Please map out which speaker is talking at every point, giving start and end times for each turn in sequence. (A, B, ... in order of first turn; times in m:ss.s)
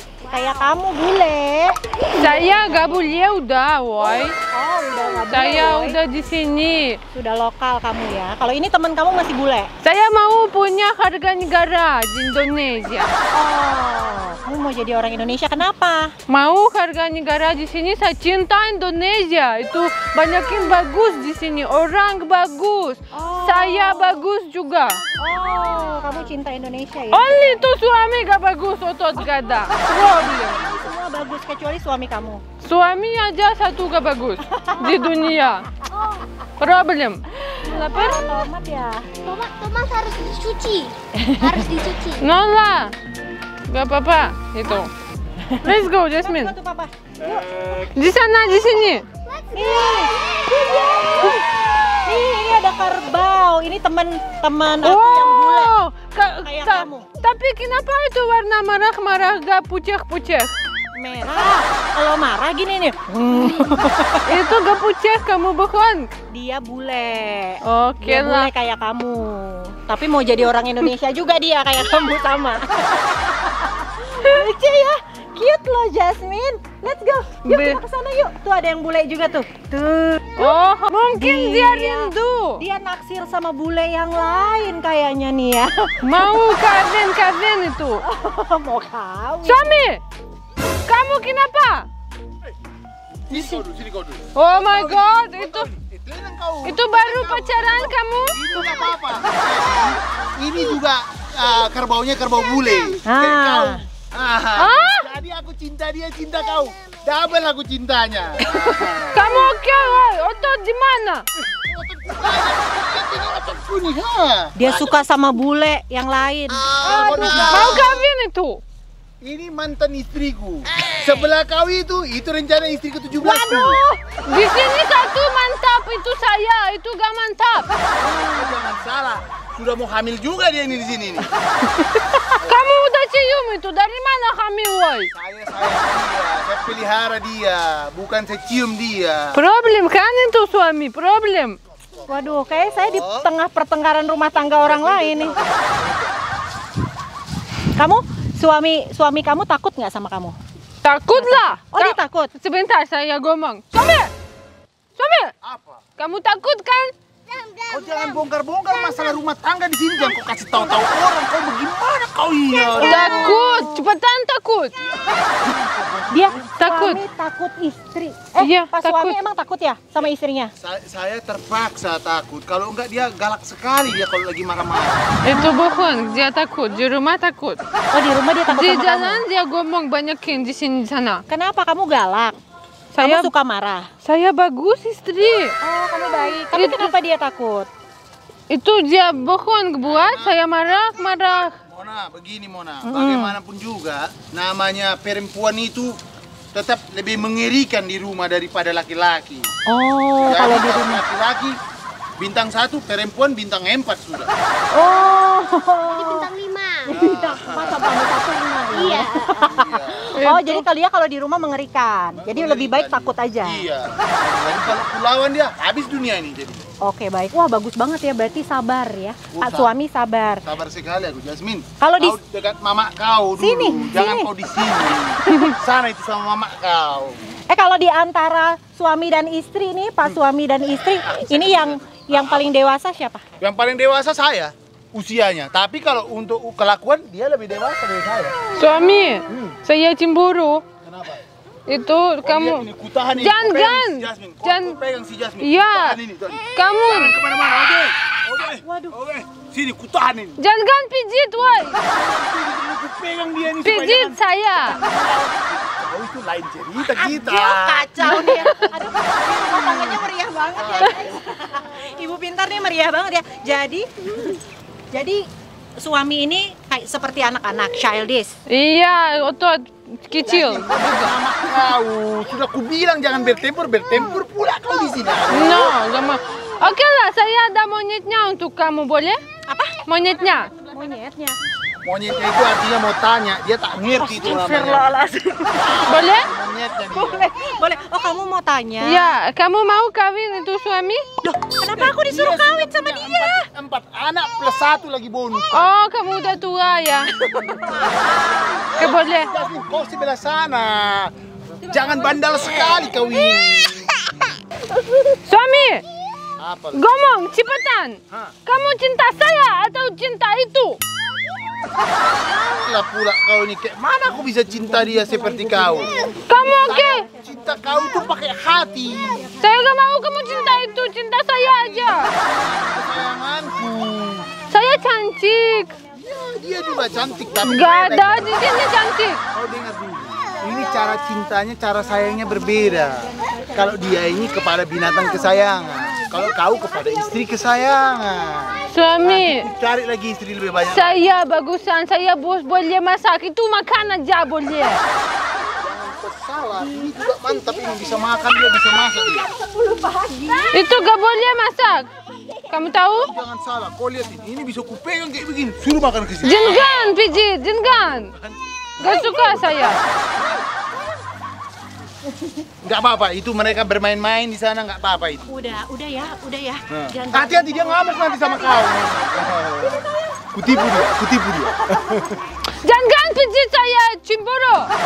0:00.2-0:03.0 A
0:02.1-0:04.3 B
0:04.0-0:06.0 A
0:05.3-0:07.0 B
0:07.1-0:09.7 A
0:09.8-0:13.1 B
0:13.3-0:16.1 A
0:16.3-0:25.0 B
0:23.1-0:24.2 A
0:25.1-0:27.4 A
0:27.1-0:30.6 B
0:29.8-0:32.4 A
0:32.6-0:35.7 B
0:34.5-0:35.3 A
0:35.9-0:36.2 C
0:36.6-0:38.2 B
0:37.6-0:39.1 A
0:39.2-0:42.2 C
0:41.2-0:41.6 A
0:42.2-0:42.9 B
0:43.7-0:44.9 B
0:45.6-0:46.5 B
0:46.2-0:47.9 A
0:47.9-0:49.0 B
0:49.2-0:51.4 C
0:49.5-0:50.1 A
0:50.6-0:51.5 A
0:50.9-0:51.9 B
0:52.0-0:55.7 A
0:54.8-1:00.5 B
0:56.4-0:57.1 A
1:00.9-1:04.5 A
1:03.2-1:03.7 B
1:04.2-1:06.0 B
1:06.3-1:20.6 A
1:07.6-1:08.5 B
1:17.4-1:17.8 B
1:20.4-1:22.6 B
1:21.2-1:26.0 A
1:26.0-1:28.0 B
1:28.0-1:29.8 A
1:29.4-1:30.0 B
1:30.9-1:31.9 B
1:33.3-1:49.2 D
1:33.3-1:33.6 A
1:34.3-1:35.7 B
1:36.6-1:38.4 B
1:43.0-1:43.8 A
1:44.6-1:45.1 B
1:49.1-1:51.2 B
1:51.4-1:55.0 D
1:54.6-1:58.0 A
1:56.7-1:58.0 D
1:57.2-1:58.6 B
1:59.2-2:03.8 D
2:03.2-2:04.0 A
2:04.2-2:07.7 B
2:08.0-2:11.3 D
2:08.0-2:08.6 A
2:12.4-2:15.1 B
2:15.1-2:19.4 D
2:19.3-2:21.6 B
2:22.1-2:25.4 A
2:22.8-2:23.3 D
2:24.6-2:26.1 D
2:27.8-2:30.4 A
2:30.8-2:34.1 B
2:31.2-2:32.3 A
2:35.0-2:35.3 B
2:35.4-2:35.8 D
2:36.0-2:36.9 B
2:37.3-2:39.2 C
2:37.7-2:43.3 D
2:42.5-2:43.8 A
2:42.8-2:44.7 B
2:45.0-2:46.5 D
2:46.1-2:50.5 A
2:46.6-2:47.0 B
2:48.4-2:49.2 B
2:50.6-2:55.2 D
2:55.2-2:57.6 B
2:55.3-2:55.9 A
2:57.9-2:59.2 A
2:58.5-3:01.2 B
3:01.3-3:02.4 A
3:02.9-3:03.3 B
3:03.0-3:03.9 A
3:04.0-3:05.5 B
3:05.6-3:07.7 A
3:06.5-3:06.9 B
3:08.5-3:11.6 B
3:09.8-3:10.4 D
3:11.6-3:16.0 D
3:12.8-3:13.3 A
3:16.5-3:19.5 D
3:19.7-3:21.0 A
3:20.2-3:21.6 D
3:22.2-3:24.3 D
3:24.7-3:26.3 A
3:25.9-3:27.0 C
3:26.8-3:33.6 A
3:27.0-3:27.8 D
3:28.7-3:29.5 C
3:29.4-3:30.1 D
3:30.2-3:30.6 B
3:32.2-3:36.6 D
3:36.8-3:40.4 A
3:39.3-3:39.7 D
3:40.4-3:47.2 D
3:41.8-3:42.2 A
3:43.4-3:44.3 A
3:45.2-3:45.5 A
3:47.5-3:53.2 A
3:50.9-3:52.5 D
3:53.4-3:58.4 D
3:58.6-4:00.6 B
3:59.3-3:59.6 D
4:00.8-4:01.2 D
4:01.7-4:02.6 B
4:02.2-4:10.4 D
4:03.2-4:04.8 B
4:05.4-4:06.0 B
4:06.5-4:07.1 B
4:08.6-4:09.0 A
4:10.4-4:11.8 B
4:11.8-4:20.0 D
4:13.6-4:14.8 B
4:16.8-4:24.4 A
4:20.6-4:21.0 D
4:24.9-4:25.2 A
4:25.8-4:28.4 A
4:28.5-4:31.2 B
4:30.2-4:36.1 D
4:35.3-4:39.2 B
4:39.5-4:41.4 A
4:39.8-4:40.5 B
4:41.8-4:44.9 D
4:43.8-4:46.0 A
4:45.5-4:47.3 D
4:45.8-4:46.3 B
4:46.9-4:49.1 A
4:48.8-4:51.0 B
4:51.2-4:53.5 A
4:51.8-4:55.7 D
4:55.5-4:57.1 B
4:57.3-4:59.0 A
4:58.7-5:03.9 D
4:58.8-4:59.3 B
5:05.2-5:05.8 B
5:06.4-5:06.8 D
5:06.7-5:10.8 B
5:12.1-5:19.3 D
5:14.7-5:16.2 A
5:16.3-5:17.0 B
5:16.7-5:17.8 A
5:19.4-5:22.1 B
5:22.2-5:22.7 A
5:22.3-5:24.3 D
5:24.5-5:25.7 B
5:26.0-5:28.3 D
5:27.4-5:29.2 B
5:29.3-5:41.0 D
5:32.2-5:37.0 A
5:38.7-5:39.4 B
5:40.7-5:44.8 B
5:45.6-5:49.3 D
5:46.6-5:50.9 A
5:50.5-5:51.9 B
5:52.5-5:53.1 B
5:53.0-5:58.8 D
5:56.2-5:58.1 B
5:56.3-5:56.6 A
5:58.8-5:59.8 B
5:58.8-5:59.5 A
6:00.2-6:01.0 A
6:02.1-6:02.4 A
6:02.6-6:05.3 D
6:05.3-6:12.3 A
6:06.7-6:12.2 D
6:12.6-6:14.7 B